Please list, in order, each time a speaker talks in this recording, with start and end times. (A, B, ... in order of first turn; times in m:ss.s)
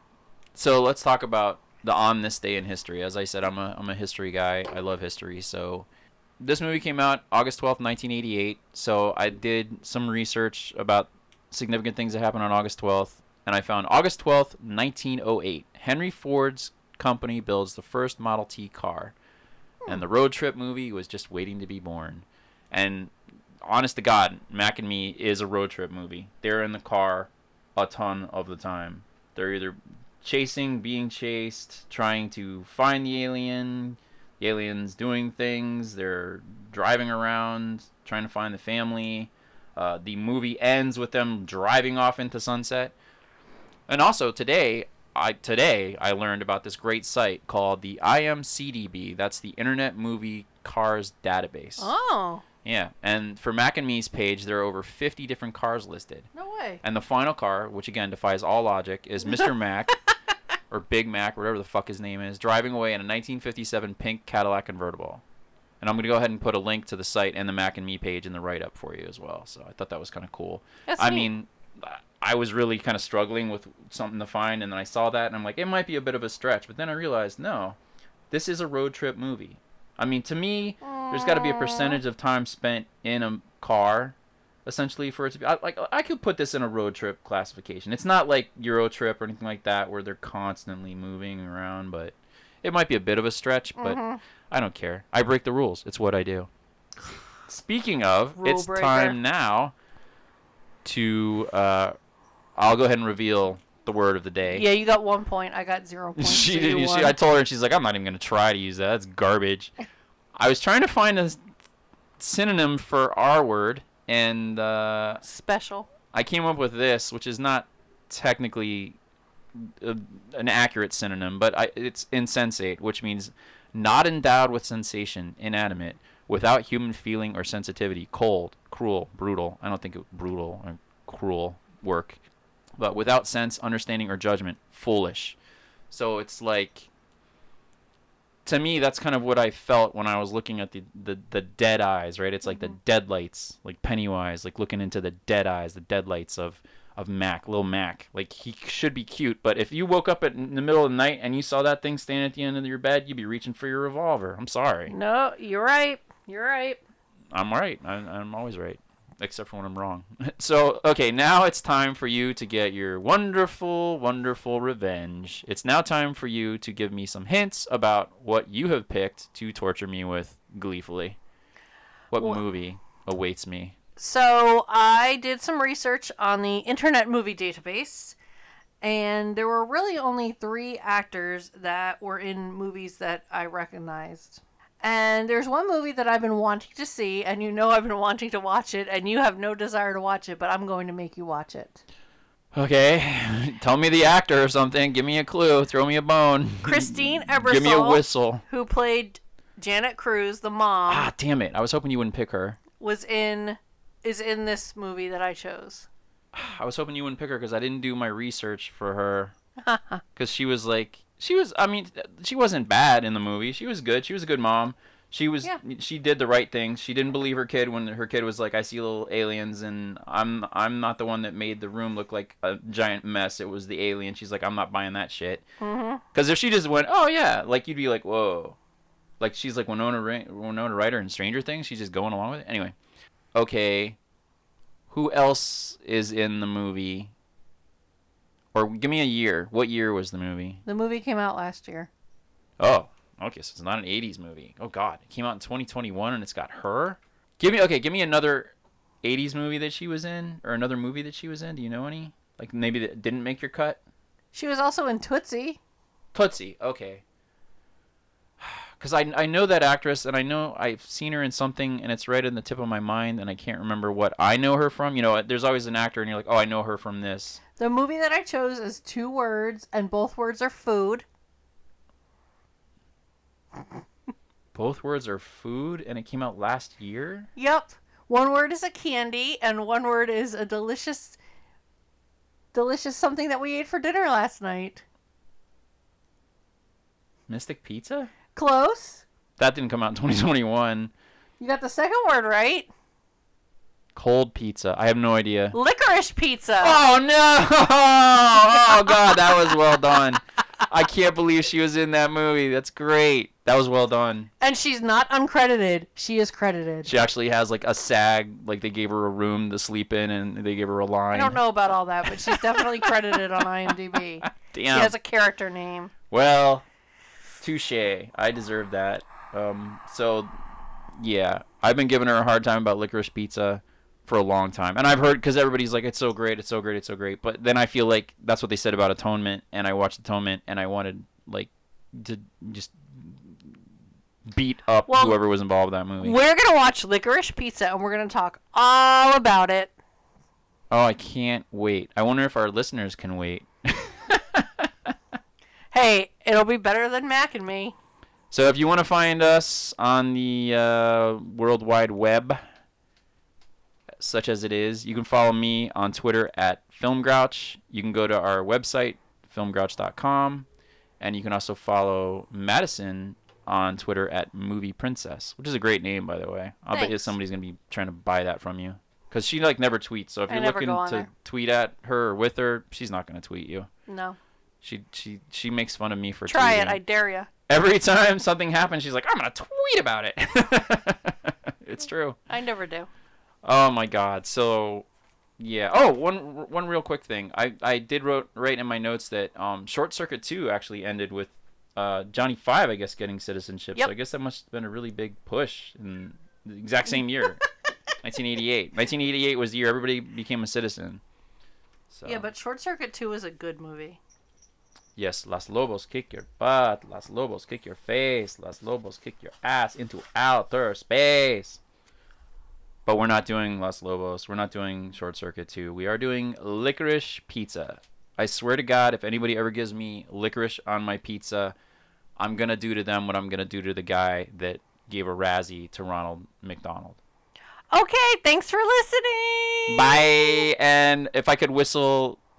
0:00.6-0:05.9 A
0:06.4-0:19.1 A
0:19.9-0:42.9 A
0:43.9-0:51.9 A
0:51.8-0:52.4 B
0:52.6-0:56.3 A
0:56.3-0:56.8 B
0:56.8-0:59.9 A
1:00.7-1:05.2 A
1:05.8-1:17.8 A
1:10.9-1:11.3 B
1:18.3-1:34.0 A
1:20.8-1:22.0 B
1:33.8-1:34.2 B
1:34.5-1:36.5 A
1:37.5-1:39.7 A
1:38.4-1:39.2 B
1:40.8-1:42.0 A
1:42.6-1:44.6 A
1:44.5-1:47.2 B
1:46.2-1:49.7 A
1:50.4-1:51.4 A
1:52.2-1:55.2 A
1:55.2-1:55.9 B
1:56.1-1:59.0 A
1:59.6-2:12.2 A
2:12.8-2:15.4 A
2:15.9-2:16.9 A
2:18.4-2:34.9 A
2:34.9-2:36.8 B
2:37.3-2:51.2 A
2:52.1-2:53.8 A
2:52.2-2:52.4 B
2:54.0-2:58.2 B
2:58.8-3:11.8 B
3:12.5-3:18.4 A
3:16.6-3:21.1 B
3:20.9-3:22.6 A
3:22.8-3:25.9 B
3:26.3-3:29.3 A
3:29.6-3:30.0 B
3:30.2-3:45.5 A
3:45.6-3:46.0 B
3:46.1-3:48.6 A
3:49.2-3:52.7 A
3:53.4-3:54.0 A
3:54.9-3:57.1 A
3:58.5-4:00.6 A
4:00.7-4:01.9 B
4:02.6-4:13.8 A
4:14.3-4:15.6 B
4:16.1-4:17.0 A
4:18.4-4:27.4 A
4:27.6-4:31.1 B
4:34.5-4:37.3 A
4:37.4-4:41.2 B
4:42.5-4:44.8 B
4:47.3-4:48.1 A
4:48.3-4:49.0 B
4:49.4-4:50.9 A
4:51.4-4:52.7 B
4:54.0-4:55.6 A
4:55.5-4:56.8 B
4:56.6-5:04.3 A
4:58.5-4:58.9 B
5:04.4-5:07.0 B
5:06.8-5:11.4 A
5:11.1-5:15.9 B
5:12.3-5:12.9 A
5:14.2-5:14.9 A
5:16.1-5:16.6 A
5:17.4-5:20.4 A
5:21.0-5:33.5 A
5:34.3-5:36.2 A
5:34.9-5:35.2 B
5:36.0-5:39.7 B
5:40.7-5:44.9 A
5:45.7-5:47.8 B
5:48.3-5:52.4 A
5:54.0-6:00.5 A
6:01.0-6:13.7 A
6:06.7-6:07.1 B
6:10.3-6:11.1 B
6:13.9-6:14.2 B
6:14.6-6:16.8 A
6:16.3-6:17.3 B
6:17.5-6:22.2 A
6:22.3-6:22.9 B
6:23.4-6:24.9 A
6:25.4-6:37.4 A
6:38.0-6:41.0 A
6:41.9-6:42.3 A
6:42.0-6:44.0 B
6:45.0-6:51.6 A
6:52.9-7:01.5 A
7:02.2-7:07.0 A
7:07.7-7:10.4 B
7:09.7-7:12.2 A